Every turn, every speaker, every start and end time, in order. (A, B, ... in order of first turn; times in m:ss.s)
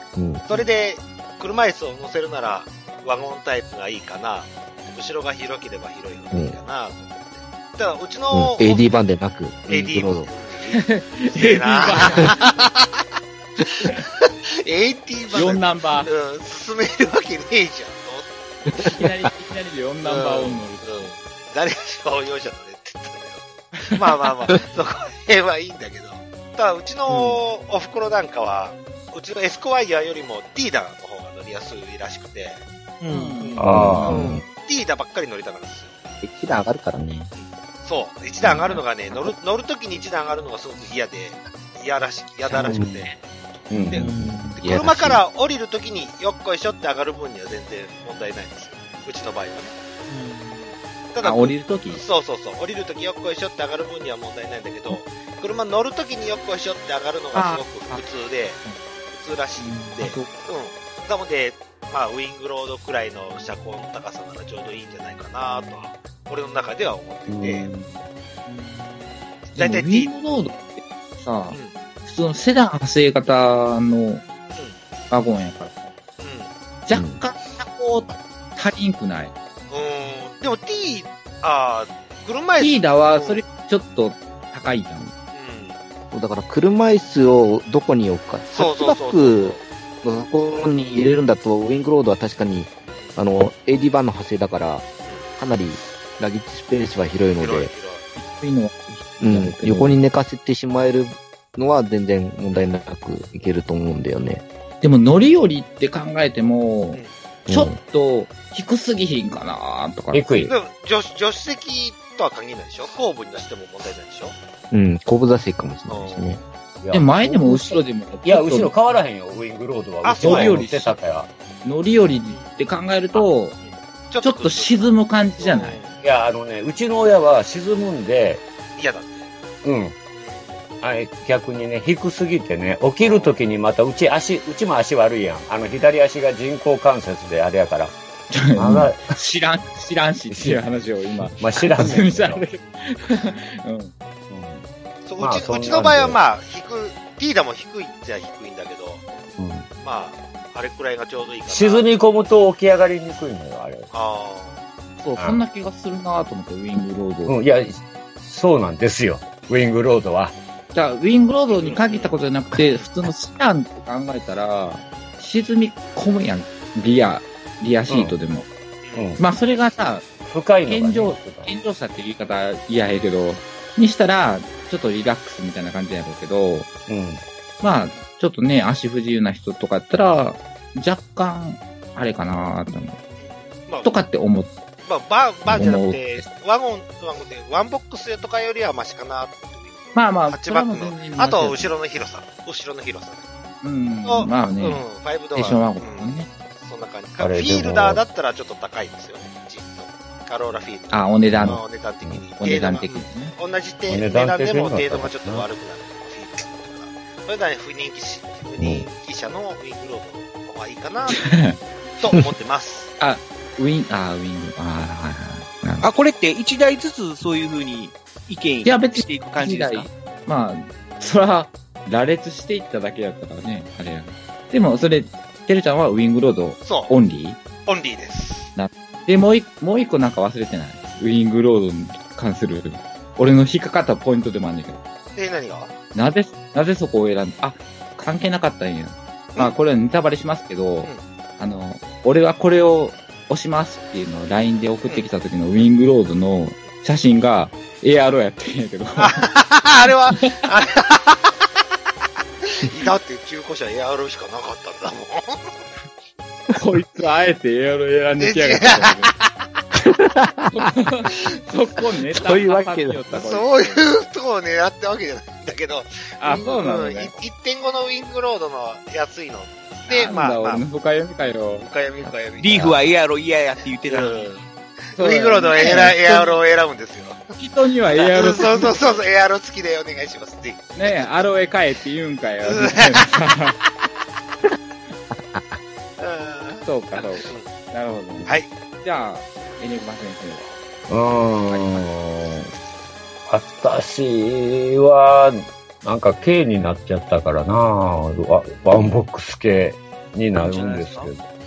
0:00.2-0:00.4 A
0:00.5-0:09.0 B
0:06.3-0:06.6 A
0:08.3-0:10.3 A
0:09.7-0:13.0 B
0:10.8-0:12.6 C
0:13.8-0:18.3 B
0:15.3-0:16.1 C
0:18.8-0:21.1 C
0:20.0-0:32.6 B
0:27.1-0:27.4 D
0:33.0-0:33.5 D
0:33.1-0:34.1 C
0:33.6-0:34.2 E
0:33.6-0:34.4 A
0:34.1-0:34.4 D
0:34.1-0:35.9 B
0:36.2-0:37.3 A
0:37.3-0:43.2 B
0:38.6-0:39.2 C
0:42.6-0:43.0 E
0:43.7-0:44.0 E
0:43.9-0:49.7 B
0:43.9-0:44.6 D
0:44.6-0:45.2 C
0:50.1-0:50.7 D
0:51.1-1:07.7 B
0:51.2-0:52.0 C
0:57.3-0:58.0 C
0:59.6-1:00.0 D
1:00.0-1:00.3 C
1:07.3-1:08.0 E
1:08.5-1:09.1 D
1:09.5-1:10.7 B
1:09.6-1:14.2 C
1:15.1-1:15.9 C
1:16.2-1:16.5 B
1:16.8-1:19.3 C
1:16.9-1:17.2 A
1:19.7-1:23.5 B
1:22.6-1:25.1 C
1:25.3-1:25.8 B
1:26.1-1:34.8 A
1:28.5-1:29.6 B
1:32.9-1:33.2 B
1:35.4-1:37.7 A
1:37.4-1:38.0 B
1:38.2-1:40.0 C
1:39.2-1:44.4 A
1:44.8-1:50.2 C
1:47.5-1:47.8 A
1:50.1-1:50.5 E
1:50.5-1:54.4 B
1:54.7-1:56.4 A
1:55.9-1:56.4 B
1:56.8-2:01.3 E
1:56.9-1:58.7 C
2:00.0-2:00.6 B
2:00.2-2:01.0 C
2:01.6-2:03.6 C
2:02.3-2:02.6 B
2:03.1-2:06.0 B
2:04.2-2:05.8 C
2:06.0-2:08.4 E
2:08.8-2:09.3 B
2:09.6-2:09.9 E
2:10.1-2:10.6 B
2:10.8-2:18.0 E
2:13.0-2:13.4 B
2:18.3-2:23.9 C
2:18.6-2:19.1 E
2:20.3-2:20.6 E
2:21.2-2:22.4 E
2:24.3-2:24.7 E
2:25.0-2:29.0 B
2:25.2-2:26.2 E
2:29.4-2:29.7 E
2:29.8-2:31.9 B
2:31.5-2:33.9 E
2:33.9-2:34.6 B
2:35.0-2:37.4 C
2:37.3-2:40.4 E
2:40.7-2:48.5 C
2:41.5-2:42.9 B
2:47.9-2:48.1 E
2:48.8-2:49.2 B
2:48.9-2:49.2 E
2:49.2-2:50.0 C
2:50.2-2:51.5 E
2:50.6-2:56.7 C
2:56.9-2:57.2 E
2:57.6-3:03.0 C
3:03.2-3:03.9 B
3:03.8-3:04.5 C
3:04.8-3:13.3 B
3:05.4-3:06.2 C
3:09.9-3:11.7 C
3:13.6-3:14.8 C
3:14.0-3:31.2 B
3:15.3-3:16.3 C
3:17.2-3:18.0 E
3:20.9-3:21.6 C
3:21.3-3:22.2 E
3:22.4-3:23.3 C
3:23.9-3:25.5 E
3:28.6-3:28.8 A
3:31.2-3:31.6 C
3:32.0-3:32.9 B
3:33.0-3:35.9 C
3:35.8-3:39.9 D
3:38.6-3:47.4 C
3:46.6-3:46.9 B
3:47.6-3:48.5 B
3:48.5-3:54.8 C
3:55.1-3:55.7 B
3:55.9-4:09.3 C
4:09.0-4:11.3 B
4:12.4-4:15.6 B
4:16.5-4:19.1 C
4:18.2-4:19.3 B
4:20.1-4:20.5 A
4:20.5-4:23.8 C
4:22.1-4:23.2 A
4:23.1-4:30.6 B
4:26.2-4:27.1 C
4:29.9-4:31.6 C
4:31.5-4:32.8 B
4:32.4-4:34.3 D
4:33.8-4:37.2 B
4:35.0-4:36.4 C
4:37.4-4:38.9 C
4:37.9-4:41.1 B
4:40.8-4:43.6 C
4:42.4-4:43.1 B
4:46.0-4:47.5 B
4:46.6-4:50.5 C
4:50.9-4:52.5 E
4:51.5-4:51.8 C
4:53.3-5:01.2 E
5:00.4-5:01.1 D